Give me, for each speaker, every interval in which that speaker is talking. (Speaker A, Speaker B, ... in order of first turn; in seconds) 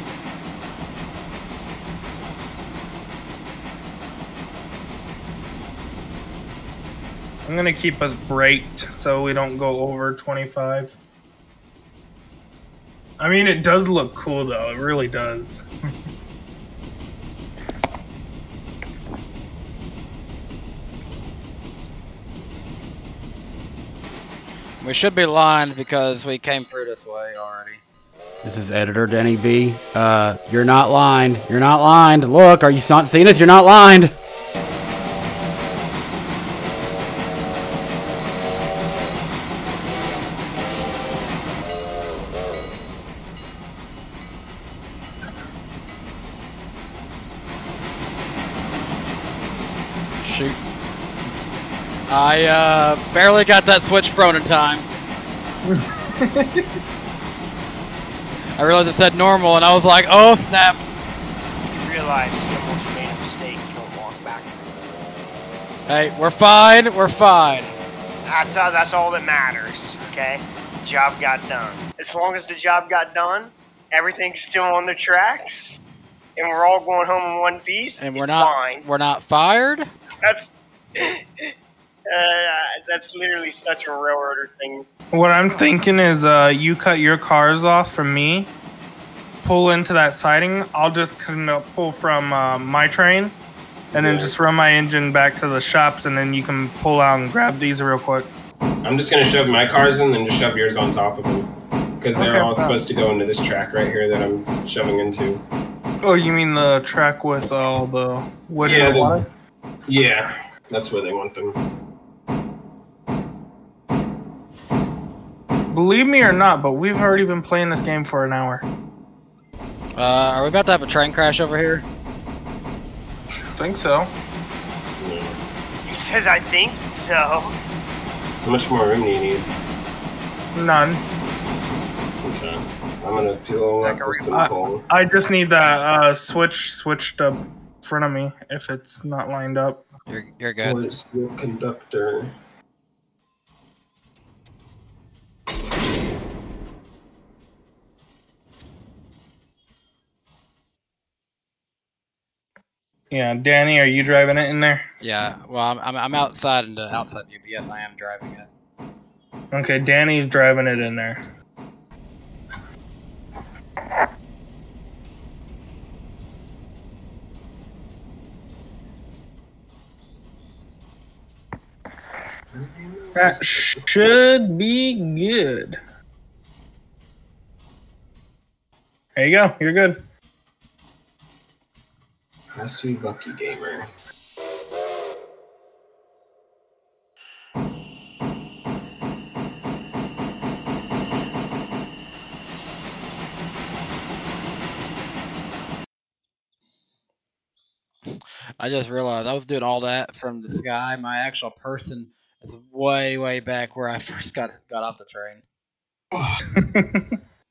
Speaker A: 7.5-11.0, 13.2-15.7, 55.6-56.7, 85.1-88.5, 89.4-93.4, 93.9-98.3, 102.2-102.8, 106.0-109.3, 115.7-118.7, 123.6-124.1, 130.6-131.0, 134.3-139.8, 153.1-154.8, 159.5-161.2, 173.2-175.8, 179.2-180.0, 206.6-207.2
Speaker B: 24.8-27.8, 50.2-50.6, 52.1-54.9, 58.6-60.8, 65.9-67.8, 78.0-79.8, 120.0-121.9, 140.1-140.8, 155.0-158.5, 198.1-205.4
Speaker C: 28.4-34.2
Speaker D: 61.6-64.8, 68.3-75.8, 76.4-78.9, 80.2-81.5, 82.1-84.9, 125.9-127.5, 133.8-134.4
Speaker E: 93.9-94.3, 98.8-101.5, 102.0-105.4, 108.6-109.2, 109.9-111.6, 125.0-125.4, 128.4-129.5, 132.2-134.9, 140.6-142.3, 172.5-173.9, 182.5-183.9, 206.1-206.4